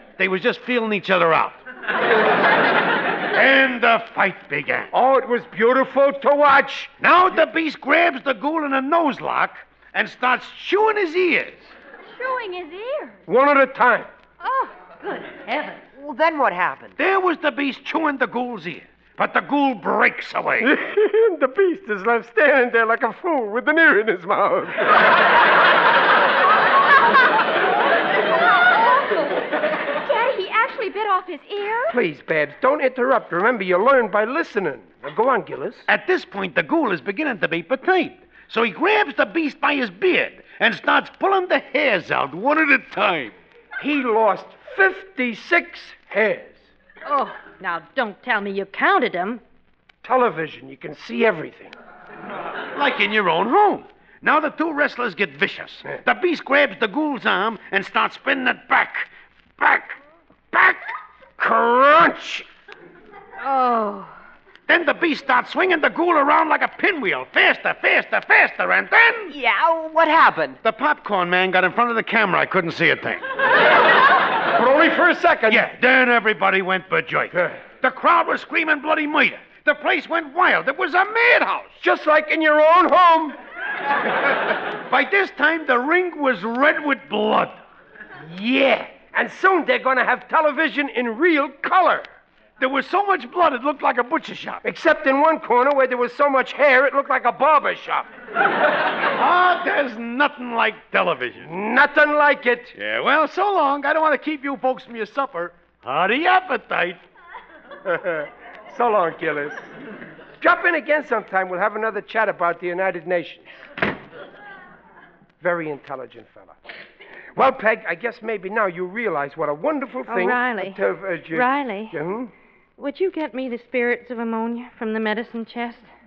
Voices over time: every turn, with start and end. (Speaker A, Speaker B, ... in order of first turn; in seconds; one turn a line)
Speaker A: 0.2-1.6
Speaker A: 3.3-4.9
Speaker B: 4.9-7.0
Speaker A: 7.0-11.7
Speaker C: 12.1-13.2
Speaker B: 13.3-14.1
Speaker D: 14.4-15.8
Speaker E: 16.0-17.0
Speaker A: 17.0-20.7
Speaker B: 20.6-25.0
Speaker C: 30.0-31.9
Speaker B: 31.9-35.9
Speaker A: 35.9-43.4
Speaker B: 43.8-46.6
Speaker D: 47.0-49.4
Speaker B: 50.0-51.8
Speaker A: 52.7-60.0
Speaker A: 60.5-60.8
Speaker B: 61.4-62.5
Speaker D: 63.4-64.1
Speaker A: 64.7-69.3
Speaker E: 69.3-70.6
Speaker A: 70.6-73.2
Speaker B: 74.5-75.7
Speaker A: 75.5-81.7
Speaker B: 77.3-77.6
Speaker B: 81.8-83.4
Speaker A: 84.8-87.6
Speaker B: 88.3-92.1
Speaker A: 92.6-94.6
Speaker B: 94.6-98.1
Speaker A: 99.1-101.5
Speaker B: 101.4-102.8
Speaker A: 102.8-107.0
Speaker B: 107.8-109.7
Speaker B: 110.4-113.5
Speaker B: 115.4-116.6
Speaker B: 117.3-122.3
Speaker D: 120.1-120.8
Speaker D: 121.3-122.0
Speaker D: 122.8-125.9